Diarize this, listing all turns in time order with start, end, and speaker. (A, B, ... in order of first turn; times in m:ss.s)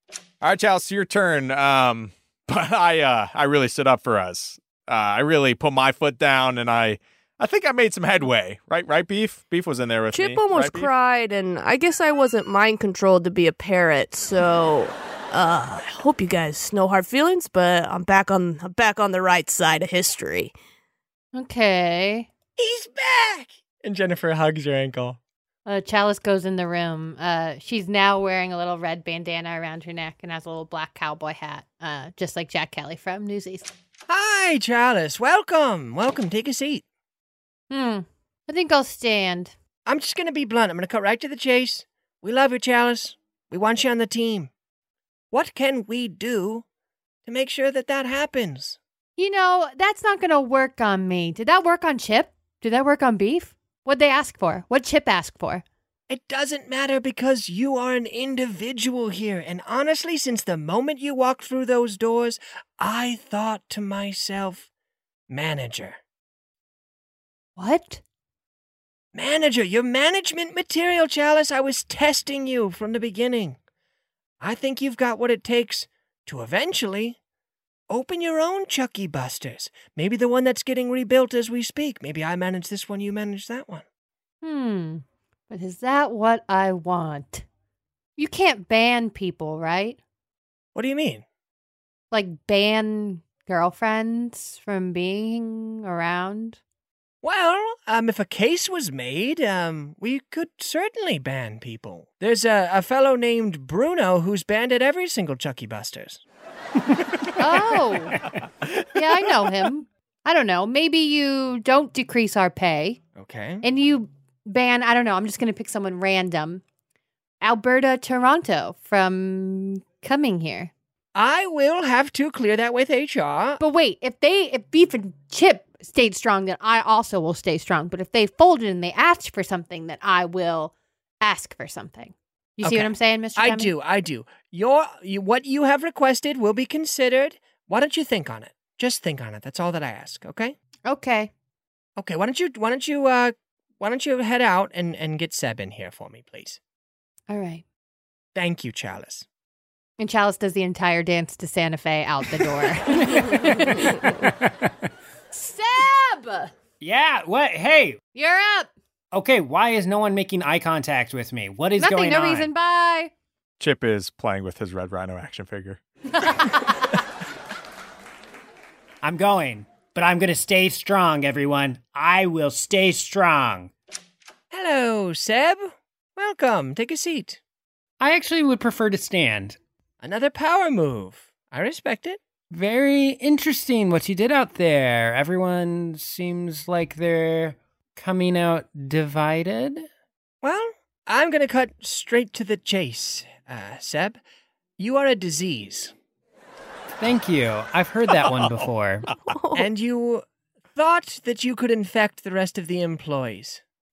0:00.4-0:10.9 A
0:10.1-0:20.5 B
0:21.3-0:22.3 C
0:22.6-0:25.2 D
0:25.7-0:33.7 C
0:34.1-0:36.8 D
0:37.7-0:39.5 C
0:39.9-0:44.5 D
0:45.3-0:46.6 D
0:47.3-0:48.8 D
0:49.2-0:55.6 C
0:56.1-1:04.7 D
1:05.3-1:06.0 D
1:07.6-1:08.0 C
1:09.1-1:13.6 D
1:14.4-1:17.2 D
1:17.9-1:23.8 D
1:24.4-1:27.4 C
1:28.2-1:30.0 C
1:30.8-1:31.2 D
1:32.1-1:36.6 C
1:37.2-1:46.2 D
1:47.4-1:48.2 C
1:48.2-1:49.5 A
1:48.9-1:53.0 C
1:53.2-1:53.6 D
1:53.6-1:56.6 C
1:57.4-2:00.7 C
2:01.2-2:03.6 D
2:03.6-2:13.7 C
2:12.6-2:20.6 D
2:20.9-2:21.3 C
2:22.0-2:26.6 D
2:27.3-2:27.6 C
2:28.4-2:29.2 D
2:30.0-2:33.9 C
2:33.0-2:34.7 E
2:35.3-2:36.5 C
2:36.8-2:38.0 E
2:38.1-2:38.7 C
2:39.1-2:42.5 E
2:41.8-2:43.1 C
2:43.6-2:45.8 A
2:49.0-2:53.7 E
2:54.5-2:57.4 D
2:58.0-2:59.6 E
3:00.0-3:02.2 D
3:02.5-3:09.9 E
3:10.4-3:14.2 D
3:14.8-3:15.9 D
3:17.0-3:19.1 E
3:18.2-3:19.1 A
3:19.3-3:19.7 B
3:19.5-3:23.6 D